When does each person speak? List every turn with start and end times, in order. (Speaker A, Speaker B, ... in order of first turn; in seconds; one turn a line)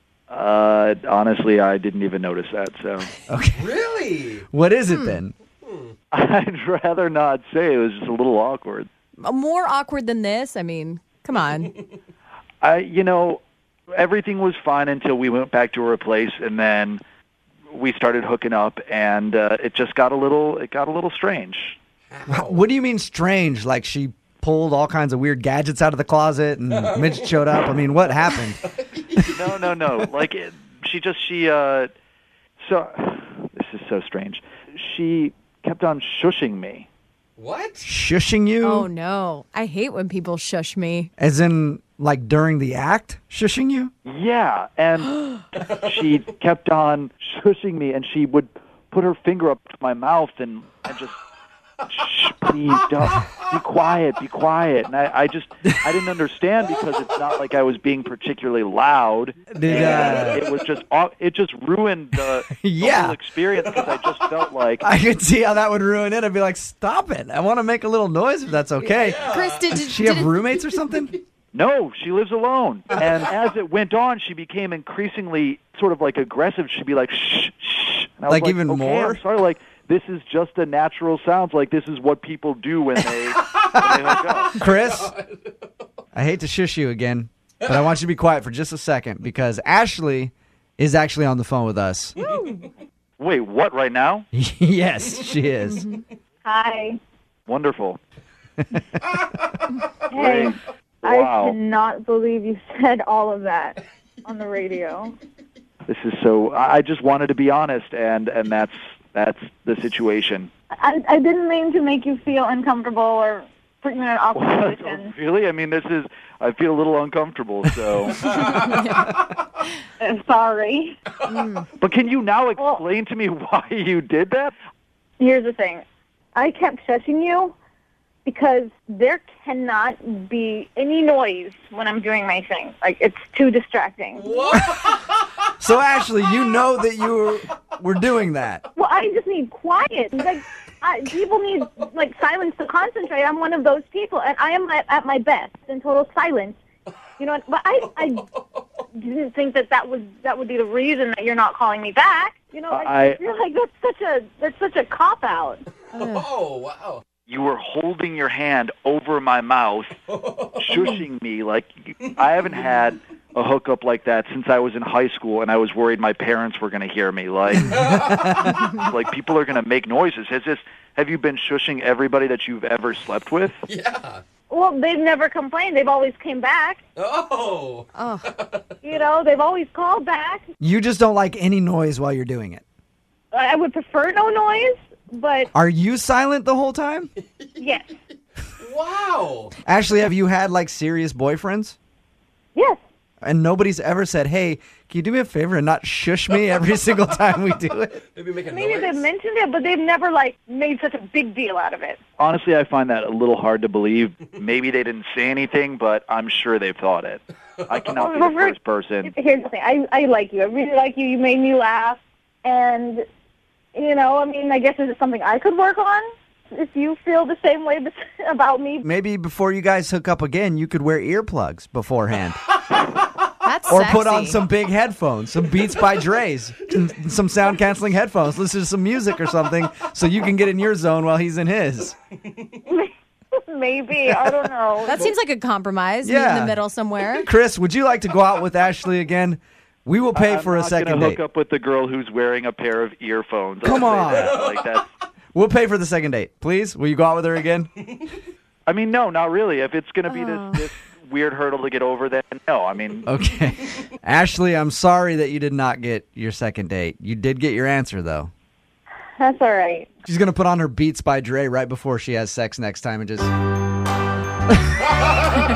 Speaker A: 0.3-3.1
Speaker B: 3.3-3.7
Speaker C: 3.5-4.5
Speaker B: 4.5-5.3
Speaker D: 4.9-5.2
Speaker C: 5.6-5.9
Speaker A: 6.1-8.9
Speaker D: 9.2-11.7
Speaker A: 12.6-13.4
Speaker A: 13.9-17.0
Speaker A: 17.7-21.8
Speaker C: 22.1-22.6
Speaker B: 22.3-28.6
Speaker C: 26.7-27.4
Speaker C: 28.6-30.1
Speaker A: 29.3-31.9
Speaker A: 32.6-36.9
Speaker C: 37.4-37.9
Speaker B: 37.8-38.9
Speaker D: 38.6-41.1
Speaker B: 41.2-43.9
Speaker A: 44.0-45.2
Speaker A: 45.8-51.1
Speaker A: 51.9-64.8
Speaker B: 59.5-60.4
Speaker C: 59.7-60.6
Speaker B: 62.5-63.2
Speaker C: 63.6-64.2
Speaker B: 64.8-71.1
Speaker D: 68.8-70.4
Speaker C: 69.0-69.7
Speaker A: 71.5-84.6
Speaker B: 78.3-79.2
Speaker C: 83.4-85.8
Speaker B: 84.5-85.1
Speaker B: 86.1-92.1
Speaker C: 92.2-92.7
Speaker D: 92.2-92.5
Speaker A: 93.2-94.2
Speaker B: 94.3-95.8
Speaker D: 95.7-96.0
Speaker E: 96.4-97.0
Speaker A: 97.5-98.0
Speaker B: 98.7-99.0
Speaker E: 100.1-105.2
Speaker A: 100.1-101.6
Speaker A: 105.9-110.5
Speaker E: 110.7-115.1
Speaker A: 114.3-118.4
Speaker C: 118.2-118.6
Speaker D: 118.6-119.1
Speaker E: 120.0-121.0
Speaker D: 121.2-121.7
Speaker A: 121.8-124.5
Speaker E: 125.2-125.8
Speaker E: 126.3-127.5
Speaker E: 128.2-134.6
Speaker C: 134.2-135.5
Speaker B: 134.5-134.8
Speaker B: 135.6-138.6
Speaker E: 138.7-146.6
Speaker E: 147.2-148.3
Speaker E: 148.9-155.6
Speaker A: 152.7-153.2
Speaker D: 155.9-156.3
Speaker C: 155.9-157.0
Speaker A: 157.2-160.0
Speaker C: 160.1-160.7
Speaker A: 160.6-168.2
Speaker C: 167.7-168.7
Speaker B: 167.8-168.7
Speaker A: 168.7-173.6
Speaker C: 173.7-174.2
Speaker E: 174.5-176.8
Speaker C: 176.9-178.8
Speaker D: 177.9-178.3
Speaker E: 178.8-180.4
Speaker B: 180.6-182.6
Speaker E: 183.3-185.5
Speaker B: 185.5-187.1
Speaker E: 187.6-187.9
Speaker C: 188.6-189.5
Speaker B: 189.7-191.8
Speaker E: 192.5-192.8
Speaker B: 193.2-198.0
Speaker C: 198.1-199.0
Speaker E: 198.4-202.0
Speaker A: 202.2-209.1
Speaker E: 207.9-213.0
Speaker E: 213.7-218.8
Speaker B: 218.8-222.4
Speaker D: 223.4-224.4
Speaker B: 223.7-231.9
Speaker E: 232.6-235.1
Speaker D: 234.8-237.3
Speaker B: 236.0-236.6
Speaker B: 237.1-241.2
Speaker A: 240.1-244.8
Speaker B: 243.6-244.4
Speaker C: 244.1-244.8
Speaker B: 245.3-247.7
Speaker A: 248.7-253.1
Speaker D: 250.1-250.7
Speaker B: 253.1-258.3
Speaker E: 259.2-259.9
Speaker B: 260.0-263.3